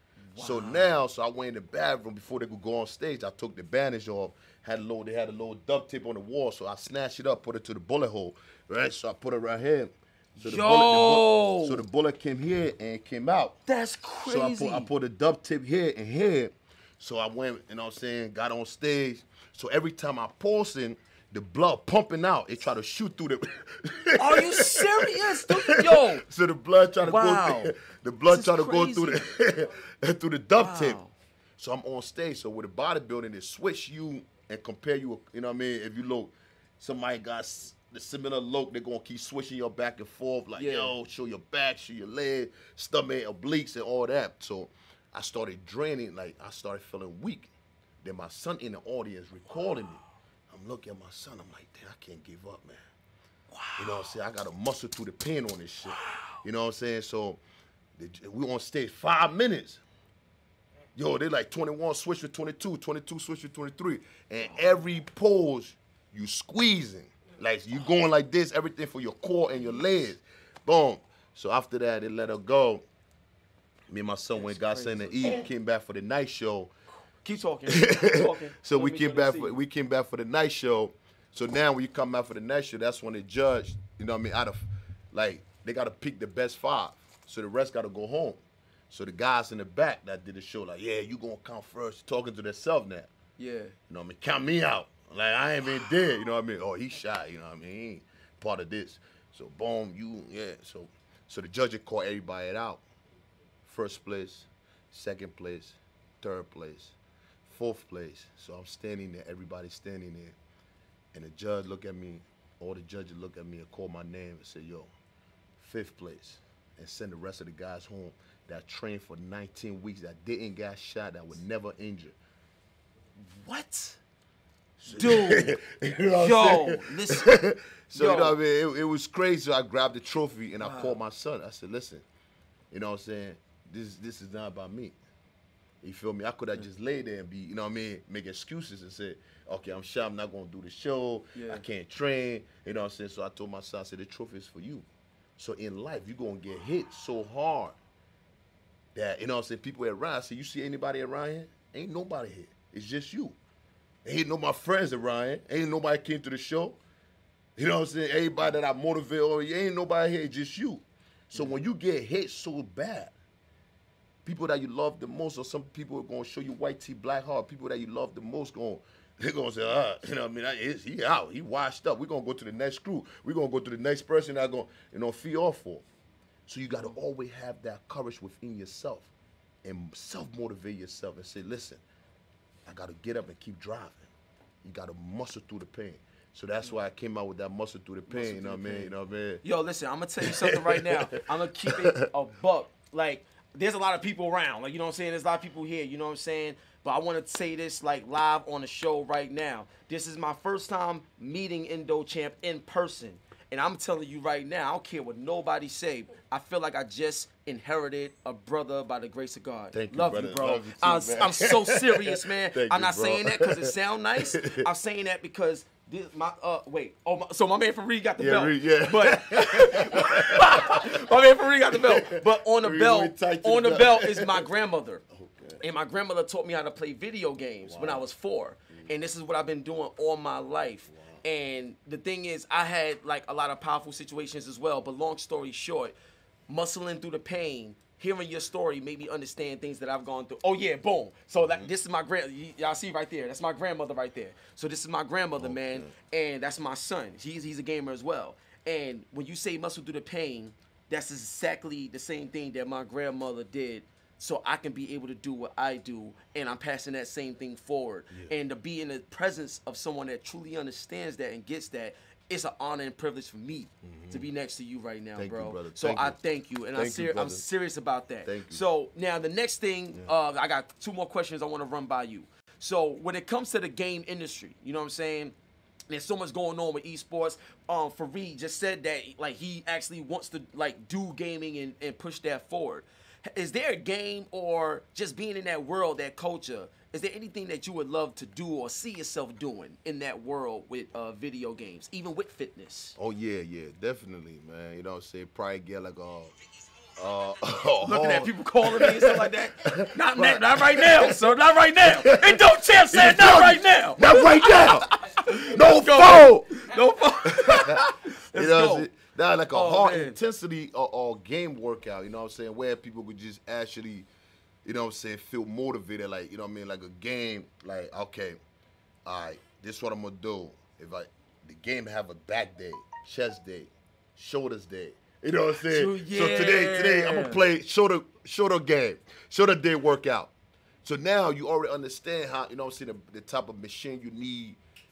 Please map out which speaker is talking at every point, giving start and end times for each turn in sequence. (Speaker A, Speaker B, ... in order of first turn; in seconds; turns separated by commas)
Speaker A: 0.3-0.9, Speaker B: 0.4-13.6, Speaker A: 10.4-11.8, Speaker A: 13.7-14.9, Speaker B: 14.2-31.0, Speaker A: 24.2-26.2, Speaker A: 27.0-27.7, Speaker A: 28.3-29.2, Speaker A: 30.6-31.1, Speaker B: 31.6-47.5, Speaker A: 40.5-40.9, Speaker B: 48.0-52.8, Speaker A: 53.5-54.1, Speaker B: 53.8-57.4, Speaker A: 55.9-56.4, Speaker B: 58.0-59.8, Speaker B: 60.9-72.8, Speaker B: 73.9-76.7, Speaker A: 74.3-75.5, Speaker A: 77.2-79.5, Speaker B: 77.7-93.1, Speaker A: 93.4-93.7, Speaker B: 93.9-102.8, Speaker B: 103.6-106.9, Speaker B: 107.5-110.4, Speaker B: 111.1-114.9, Speaker B: 115.6-122.2, Speaker A: 123.2-124.0, Speaker B: 124.8-132.1, Speaker A: 124.9-125.6, Speaker A: 126.1-127.3, Speaker A: 127.9-128.3, Speaker A: 130.6-130.9, Speaker B: 132.7-134.9, Speaker B: 135.8-144.8, Speaker A: 141.3-141.6, Speaker B: 145.4-147.8, Speaker B: 148.9-153.4, Speaker B: 154.0-156.8, Speaker B: 157.6-163.1, Speaker A: 161.3-161.6, Speaker B: 164.2-175.8, Speaker B: 176.5-179.1, Speaker B: 179.6-181.8, Speaker B: 182.7-184.1, Speaker B: 184.6-189.4, Speaker A: 188.1-225.0, Speaker B: 190.2-191.1, Speaker B: 191.7-191.9, Speaker B: 209.7-214.7, Speaker B: 218.2-221.0, Speaker B: 221.7-224.5, Speaker B: 225.1-225.6, Speaker A: 225.6-235.9, Speaker B: 227.6-228.0, Speaker B: 230.9-231.2, Speaker A: 236.5-275.3, Speaker B: 241.4-241.7, Speaker B: 245.3-245.9, Speaker B: 263.8-264.3, Speaker B: 265.1-266.2, Speaker B: 266.7-267.4, Speaker B: 268.2-268.6, Speaker A: 275.9-293.0, Speaker B: 293.0-296.3, Speaker B: 296.9-306.7, Speaker A: 297.8-308.9, Speaker B: 307.3-314.1, Speaker A: 309.5-310.2, Speaker B: 314.6-318.4, Speaker B: 319.0-330.3, Speaker A: 325.7-327.4, Speaker B: 330.8-334.6